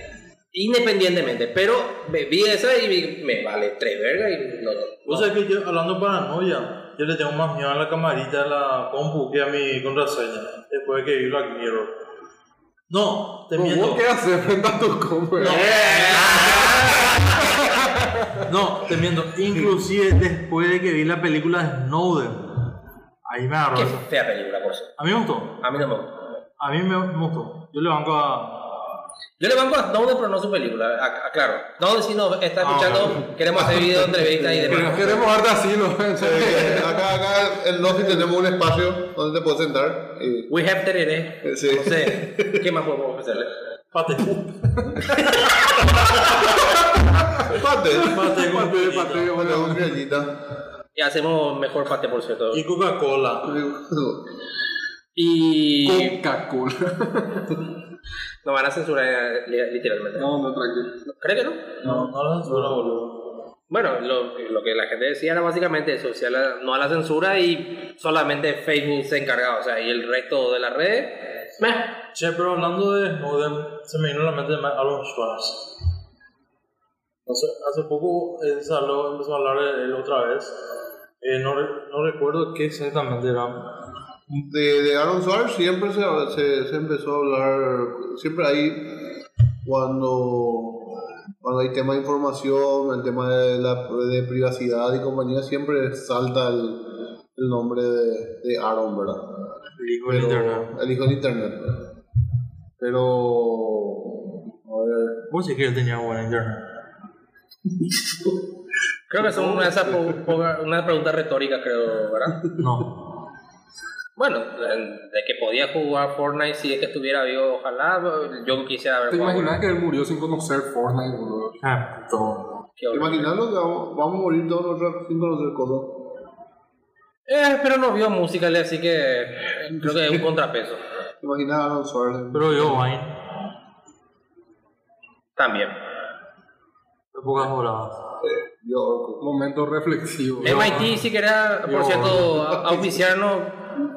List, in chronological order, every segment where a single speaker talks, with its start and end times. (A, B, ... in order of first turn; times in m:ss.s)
0:00.5-0:05.3 A
0:05.1-0:11.9 B
0:12.9-0:14.0 B
0:13.6-0:15.7 C
0:15.4-0:17.5 B
0:15.4-0:17.6 A
0:16.3-0:16.7 C
0:17.4-0:18.4 C
0:18.5-0:24.0 B
0:23.7-0:25.0 A
0:25.0-0:25.6 B
0:25.6-0:26.1 A
0:26.6-0:28.8 B
0:29.4-0:35.2 A
0:32.6-0:33.3 B
0:33.6-0:35.2 D
0:34.6-0:37.0 C
0:36.2-0:40.5 D
0:40.5-0:43.5 A
0:41.4-0:42.7 D
0:43.9-0:44.8 B
0:45.4-0:46.1 B
0:45.8-0:46.5 D
0:47.4-0:48.2 D
0:47.9-0:49.9 C
0:48.0-0:49.4 B
0:49.3-0:50.3 D
0:51.0-0:52.6 A
0:52.5-0:53.5 B
0:53.4-0:54.2 D
0:55.2-0:56.2 A
0:55.8-0:57.6 C
0:58.4-1:00.3 A
1:00.2-1:01.0 C
1:01.2-1:01.8 A
1:01.8-1:03.2 B
1:01.8-1:03.0 D
1:03.7-1:11.9 A
1:12.1-1:15.7 B
1:17.3-1:20.6 B
1:21.2-1:23.6 B
1:24.4-1:36.8 D
1:37.4-1:39.2 D
1:39.8-1:40.7 B
1:40.1-1:41.9 D
1:42.8-1:45.2 D
1:45.3-1:46.6 B
1:49.1-1:52.4 A
1:49.2-1:50.3 D
1:52.6-1:52.9 B
1:54.2-1:59.6 A
1:59.1-2:01.6 C
2:01.6-2:02.5 B
2:02.8-2:03.3 A
2:02.9-2:05.9 D
2:07.3-2:10.8 A
2:09.7-2:10.2 D
2:11.2-2:12.9 D
2:12.3-2:13.1 B
2:15.4-2:15.8 A
2:17.1-2:18.0 B
2:18.2-2:19.3 D
2:19.2-2:20.8 C
2:20.4-2:21.0 B
2:20.4-2:23.6 A
2:21.7-2:22.2 B
2:22.2-2:23.0 D